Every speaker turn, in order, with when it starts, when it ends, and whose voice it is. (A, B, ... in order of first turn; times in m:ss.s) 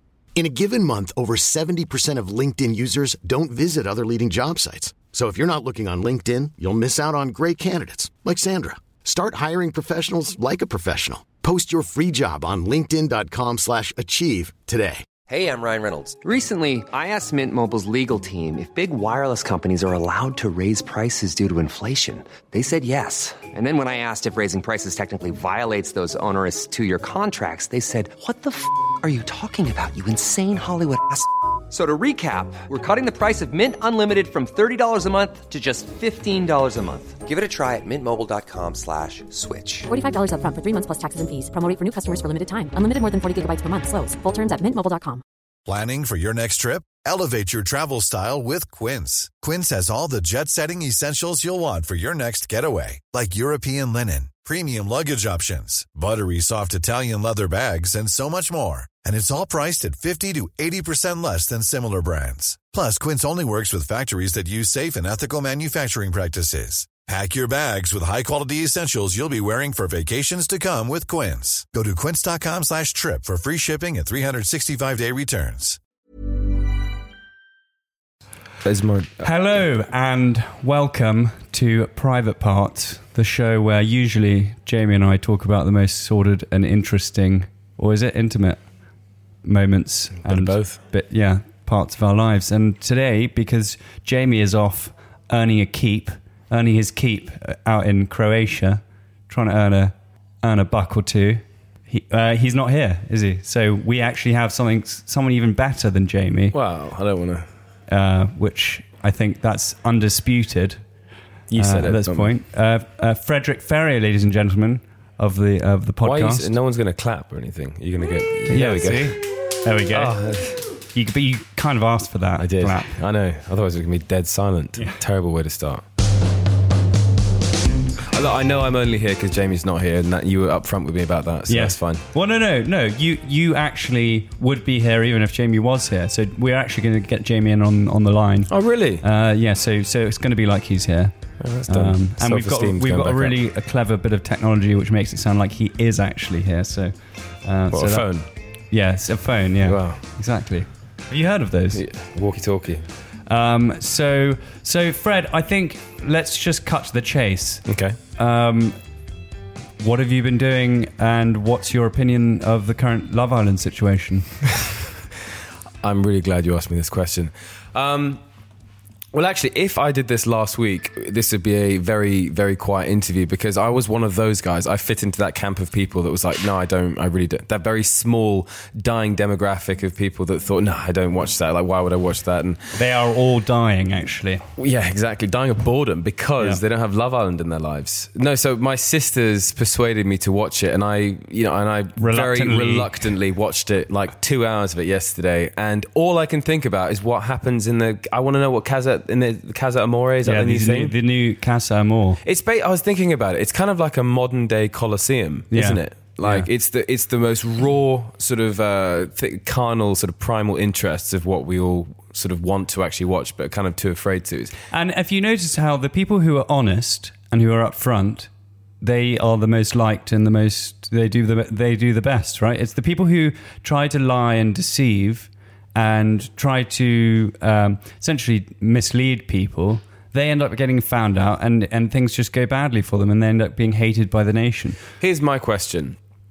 0:00.3-0:15.1 A
0:15.3-0:39.9 B
0:39.9-0:45.2 C
0:45.7-1:15.8 D
1:18.6-1:19.3 E
1:19.2-1:28.6 F
1:29.4-1:46.6 F
1:30.2-1:30.8 E
1:46.5-1:47.5 E
1:47.9-1:50.8 F
1:51.5-1:52.3 E
1:51.6-1:56.5 F
1:56.0-1:59.2 E
1:58.5-2:00.2 F
1:59.9-2:00.6 E
2:00.9-2:02.9 F
2:02.4-2:05.8 E
2:08.1-2:12.0 E
2:11.5-2:21.1 F
2:18.5-2:19.0 E
2:21.4-2:23.4 E
2:21.7-2:26.9 F
2:27.4-2:28.1 F
2:27.7-2:28.3 E
2:28.7-2:31.8 F
2:29.6-2:30.0 E
2:31.7-2:32.9 E
2:33.3-2:37.6 F
2:37.7-2:38.0 E
2:38.2-2:38.8 F
2:39.8-2:44.3 F
2:45.8-2:48.2 E
2:49.1-3:02.7 E
3:02.7-3:04.4 F
3:04.6-3:20.9 E
3:12.0-3:13.1 F
3:20.2-3:22.2 F
3:22.2-3:34.5 E
3:25.5-3:26.5 F
3:34.7-3:38.3 F
3:38.8-3:54.8 F
3:55.0-3:56.0 E